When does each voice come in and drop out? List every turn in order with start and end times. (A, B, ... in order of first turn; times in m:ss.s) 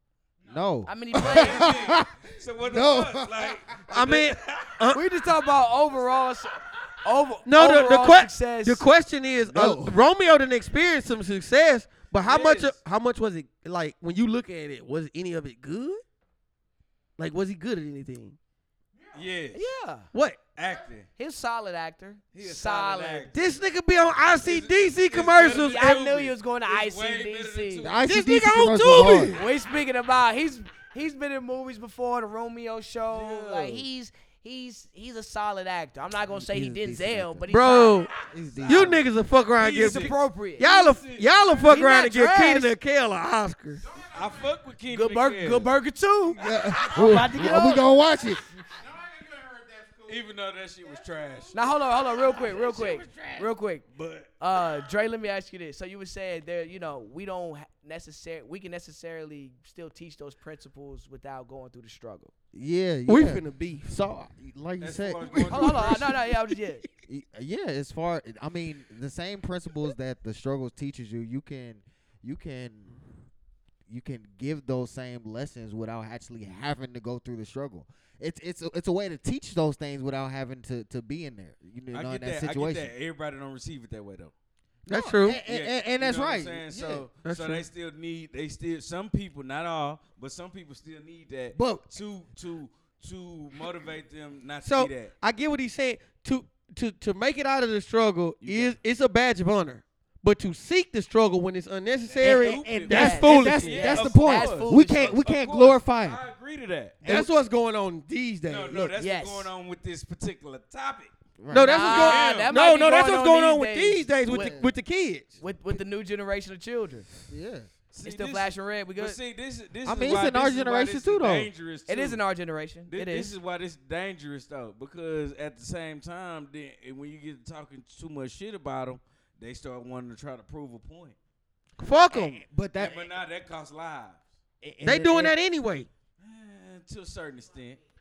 0:00.4-0:00.6 A
0:00.5-0:03.6 B
0:00.9-0:01.9 C
0:01.2-0:04.9 D
0:03.9-0:05.0 E
0:04.9-0:08.9 C
0:07.4-0:16.0 E
0:09.4-0:10.0 B
0:12.2-0:12.8 D
0:17.2-0:18.4 E
0:18.9-0:19.3 A
0:19.1-0:19.6 D
0:19.5-0:20.1 C
0:20.1-0:20.4 E
0:20.6-0:21.1 D
0:21.2-0:23.3 C
0:22.3-0:23.4 D
0:23.3-0:25.8 E
0:24.4-0:28.1 D
0:25.6-0:27.9 C
0:27.8-0:29.4 B
0:28.1-0:29.4 E
0:29.3-0:38.1 C
0:33.1-0:33.8 D
0:36.3-0:37.5 B
0:37.5-0:38.1 E
0:38.3-0:39.1 B
0:38.6-0:43.8 E
0:39.6-0:41.8 D
0:39.8-0:40.7 C
0:41.7-0:42.7 C
0:43.8-0:44.6 A
0:44.1-0:45.7 D
0:44.9-0:46.4 C
0:46.3-0:47.1 D
0:46.4-0:48.4 B
0:46.7-0:47.4 A
0:46.9-0:47.8 C
0:48.7-0:50.2 A
0:50.1-0:54.8 D
0:50.8-0:51.5 A
0:51.5-0:53.8 C
0:54.4-1:02.3 C
1:02.5-1:05.9 B
1:03.1-1:04.1 E
1:04.8-1:06.1 D
1:05.5-1:06.8 C
1:05.6-1:06.0 E
1:07.1-1:13.0 B
1:13.9-1:22.9 B
1:21.9-1:24.3 D
1:24.9-1:27.1 B
1:24.9-1:25.4 E
1:25.4-1:35.1 D
1:27.2-1:27.6 E
1:31.5-1:31.8 B
1:34.6-1:44.0 E
1:38.4-1:38.8 D
1:42.1-1:47.1 D
1:42.2-1:46.2 B
1:42.9-1:45.2 C
1:47.0-1:47.3 B
1:47.0-1:48.9 E
1:48.4-1:51.1 D
1:48.8-1:49.5 C
1:51.4-1:52.1 B
1:51.5-1:55.4 E
1:51.6-1:54.6 C
1:51.8-1:52.5 D
1:54.3-1:54.7 B
1:55.4-1:57.1 C
1:57.3-1:57.7 B
1:57.9-2:02.2 D
1:58.0-1:59.2 C
1:59.8-2:01.5 B
2:01.9-2:03.3 C
2:02.9-2:11.2 D
2:11.8-2:12.4 E
2:12.1-2:13.1 B
2:12.7-2:14.2 D
2:14.6-2:15.4 B
2:14.8-2:15.9 E
2:16.2-2:17.8 D